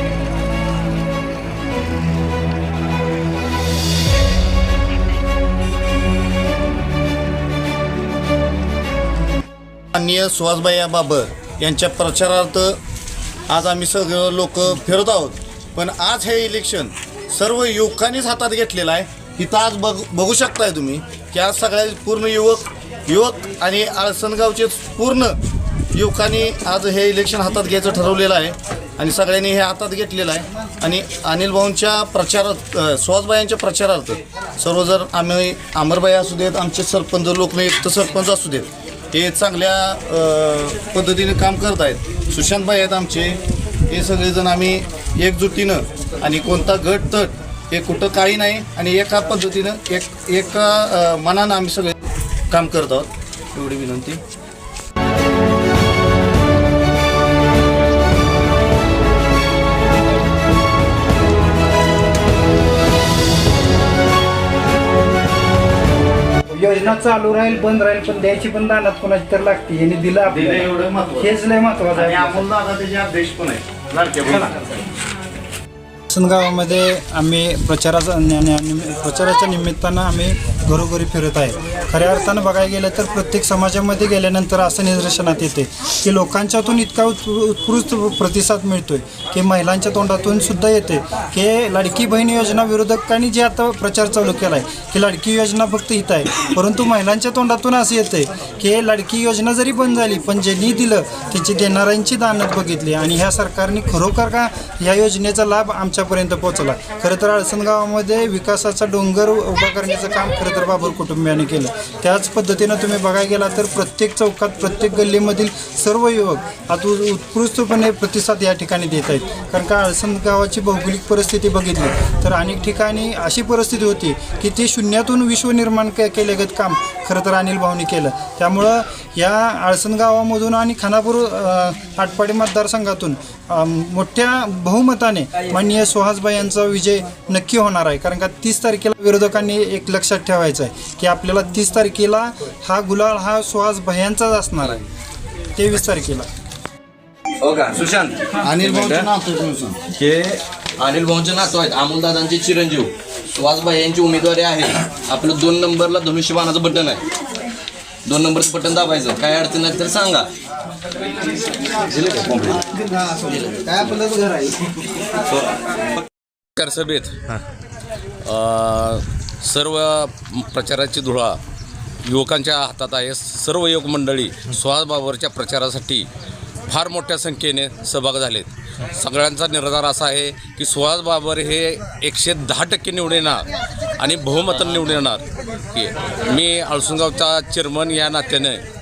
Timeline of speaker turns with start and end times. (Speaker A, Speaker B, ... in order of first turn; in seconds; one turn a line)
Speaker A: 9.9-12.8
Speaker A: 13.5-25.4
Speaker A: 25.9-52.0
Speaker A: 52.5-53.1
Speaker B: 53.5-54.2
Speaker C: 66.5-72.5
Speaker A: 70.3-71.3
Speaker A: 71.9-74.6
Speaker C: 76.1-144.8
Speaker C: 145.6-146.3
Speaker B: 147.4-149.1
Speaker A: 148.4-149.8
Speaker B: 149.9-157.0
Speaker B: 158.1-160.3
Speaker B: 161.8-162.7
Speaker B: 163.3-164.0
Speaker C: 163.9-164.4
Speaker D: 166.6-167.3
Speaker D: 168.2-171.4
Speaker D: 172.1-176.1
Speaker D: 176.7-183.4
Speaker D: 184.0-188.6